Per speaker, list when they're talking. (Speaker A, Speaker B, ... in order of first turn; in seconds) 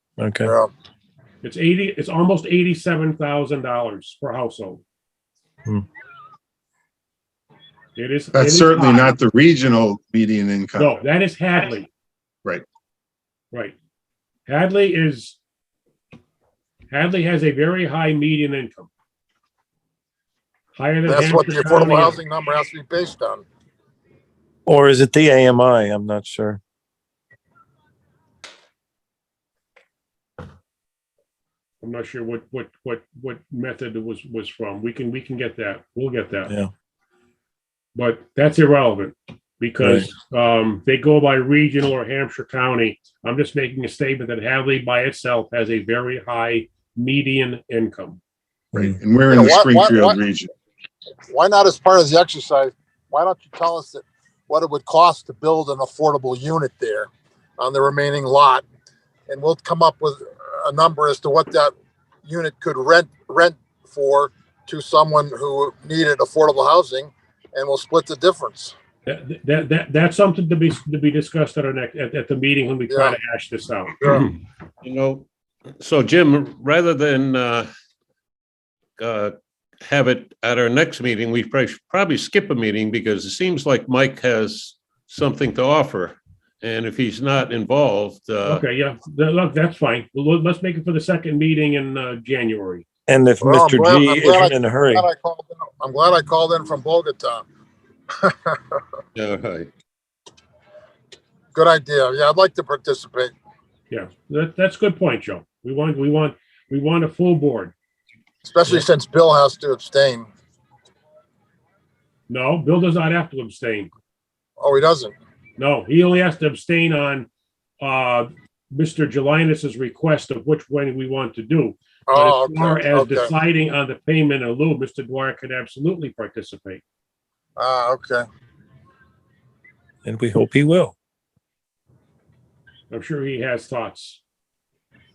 Speaker A: 0.2-0.5, 24.6-26.6, 39.8-40.1, 93.1-95.1, 130.0-130.9
Speaker B: 0.4-0.7, 21.0-23.4, 49.3-50.2, 51.3-58.6, 59.3-61.7, 62.2-68.7, 72.9-73.2, 74.0-74.2, 93.4-97.4, 98.2-98.8, 101.5-103.3, 108.4-110.3, 114.6-115.1, 122.1-123.3, 127.6-128.2
Speaker C: 1.4-4.8, 8.0-9.2, 10.8-11.9, 14.5-15.4, 16.9-18.9, 20.7-22.2, 31.8-36.5, 37.9-48.2, 69.0-74.3, 88.4-92.8, 103.9-107.7, 112.3-113.9, 115.6-117.3, 117.8-126.8, 132.9-134.2
Speaker D: 8.3-10.9, 48.8-50.5
Speaker E: 74.8-75.2, 75.8-77.7, 79.0-79.3, 79.8-88.6, 99.2-99.7